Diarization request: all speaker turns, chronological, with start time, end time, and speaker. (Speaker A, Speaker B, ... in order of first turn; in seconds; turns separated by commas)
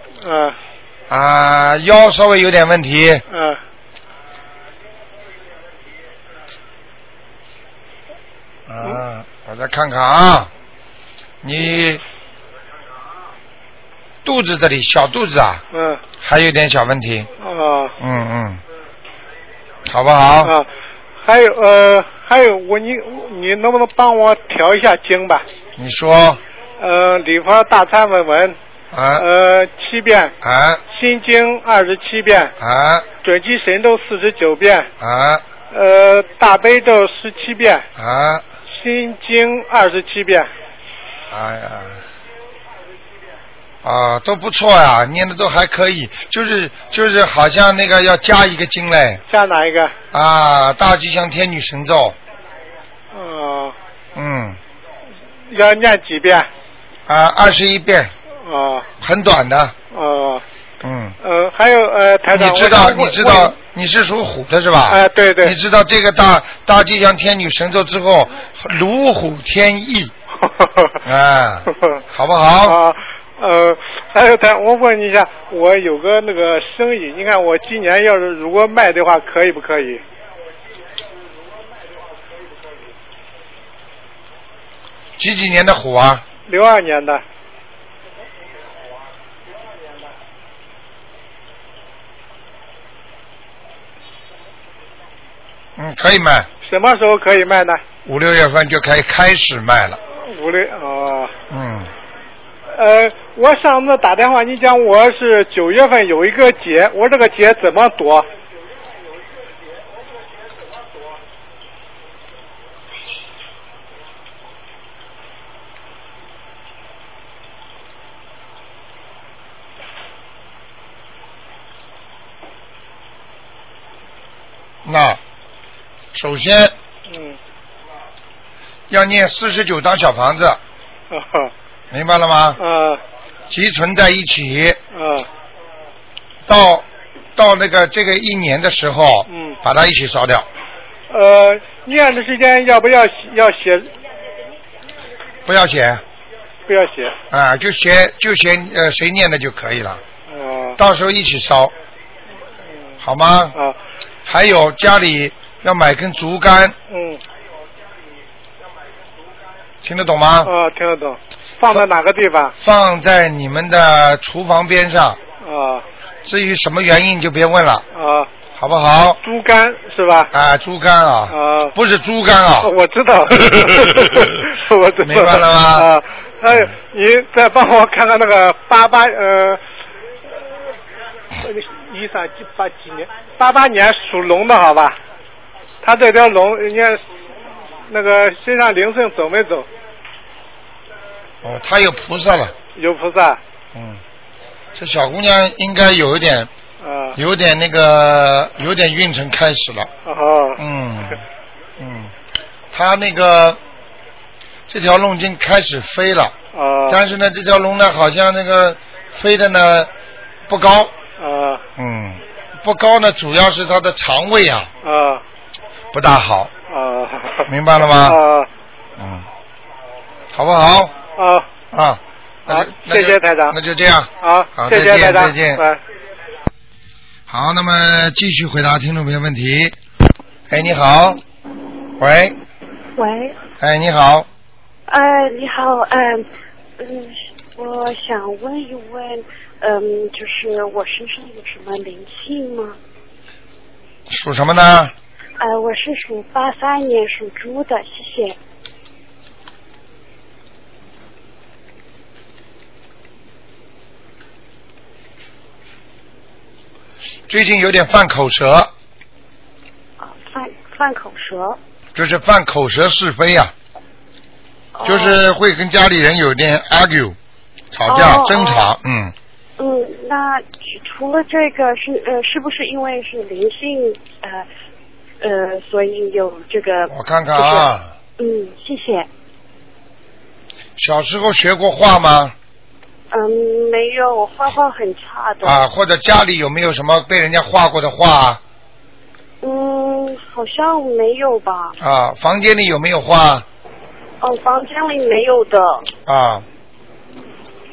Speaker A: 0.2-0.6, Speaker B: 1.1-3.2, Speaker A: 3.3-3.6, Speaker B: 8.7-10.5, Speaker B: 11.4-12.0, Speaker B: 14.2-15.6, Speaker A: 15.7-16.0, Speaker B: 16.2-17.3, Speaker A: 17.4-17.9, Speaker B: 18.0-18.6, Speaker B: 19.9-20.6, Speaker A: 21.2-25.4, Speaker B: 25.8-26.4, Speaker A: 26.8-28.6, Speaker B: 28.9-29.3, Speaker A: 29.2-30.3, Speaker B: 30.4-30.8, Speaker A: 30.9-32.5, Speaker B: 32.6-33.1, Speaker A: 33.2-34.9, Speaker B: 35.0-35.4, Speaker A: 35.7-37.9, Speaker B: 38.0-38.4, Speaker A: 38.7-40.5, Speaker B: 41.3-42.0, Speaker B: 43.8-49.2, Speaker A: 49.3-49.9, Speaker B: 50.1-52.2, Speaker A: 53.1-53.7, Speaker B: 54.1-54.6, Speaker A: 55.5-56.5, Speaker B: 57.1-58.1, Speaker A: 58.4-58.9, Speaker B: 59.0-59.7, Speaker A: 59.9-60.4, Speaker B: 60.8-61.2, Speaker A: 61.2-63.5, Speaker B: 62.3-70.1, Speaker A: 64.9-65.5, Speaker A: 70.4-71.0, Speaker B: 71.0-72.8, Speaker A: 72.6-80.0, Speaker B: 85.2-86.2, Speaker A: 86.5-87.2, Speaker B: 95.8-96.5, Speaker A: 96.6-97.8, Speaker B: 98.0-100.0, Speaker A: 100.2-101.3, Speaker B: 101.5-101.9, Speaker A: 102.7-108.3, Speaker B: 124.8-125.2, Speaker B: 126.1-126.7, Speaker A: 127.1-127.4, Speaker B: 128.9-130.6, Speaker A: 131.1-131.5, Speaker B: 131.9-132.6, Speaker A: 132.6-133.0, Speaker B: 133.5-134.8, Speaker A: 134.9-135.3, Speaker B: 136.4-140.5, Speaker A: 139.3-139.6, Speaker A: 141.1-143.9, Speaker B: 145.4-146.0, Speaker A: 146.7-147.1, Speaker B: 147.3-150.0, Speaker A: 150.3-150.8, Speaker B: 150.8-151.7, Speaker B: 153.0-153.6, Speaker B: 154.2-156.8, Speaker A: 156.9-157.2, Speaker B: 159.8-160.5, Speaker A: 160.4-162.5, Speaker B: 162.6-165.2, Speaker A: 165.4-165.8, Speaker B: 166.2-167.8, Speaker A: 167.9-168.3, Speaker B: 168.6-169.2, Speaker A: 169.2-170.3, Speaker B: 170.3-172.7, Speaker A: 171.3-171.7, Speaker A: 172.6-179.6, Speaker B: 173.4-174.3, Speaker B: 175.0-175.9, Speaker A: 181.4-185.0, Speaker A: 185.8-187.0, Speaker A: 187.9-189.7, Speaker B: 191.4-192.5, Speaker A: 192.7-193.4, Speaker B: 193.7-194.0, Speaker B: 194.7-196.5, Speaker A: 196.8-197.2, Speaker B: 197.1-199.9, Speaker A: 200.1-200.6, Speaker B: 200.6-201.2, Speaker B: 201.8-202.1, Speaker B: 202.7-203.6, Speaker B: 204.7-206.3, Speaker A: 206.5-207.0, Speaker B: 206.9-209.9, Speaker B: 210.5-210.9, Speaker A: 211.2-211.6, Speaker B: 211.8-214.7, Speaker A: 214.8-215.2, Speaker B: 215.9-216.5, Speaker A: 216.7-217.5, Speaker B: 217.5-218.2, Speaker A: 218.0-218.5, Speaker B: 219.0-219.3, Speaker B: 220.3-220.9, Speaker A: 221.2-221.5, Speaker B: 221.7-225.6, Speaker A: 222.5-223.6, Speaker A: 224.2-225.8, Speaker B: 227.3-229.8, Speaker B: 230.5-231.2, Speaker B: 232.0-232.4, Speaker C: 232.9-233.3, Speaker B: 233.6-234.3, Speaker C: 234.9-236.2, Speaker C: 236.8-242.8, Speaker B: 244.1-244.9, Speaker C: 245.4-248.3, Speaker B: 257.3-258.7, Speaker C: 260.0-261.6, Speaker B: 261.9-263.5, Speaker C: 264.7-265.2, Speaker B: 264.8-267.2, Speaker B: 267.7-269.1, Speaker C: 267.9-268.7, Speaker C: 269.6-274.4, Speaker C: 275.2-279.1, Speaker B: 276.9-277.9, Speaker B: 280.8-282.3, Speaker C: 283.1-285.6, Speaker B: 285.4-288.4, Speaker C: 289.4-291.7, Speaker B: 291.8-293.4, Speaker C: 294.2-295.9, Speaker B: 296.1-296.4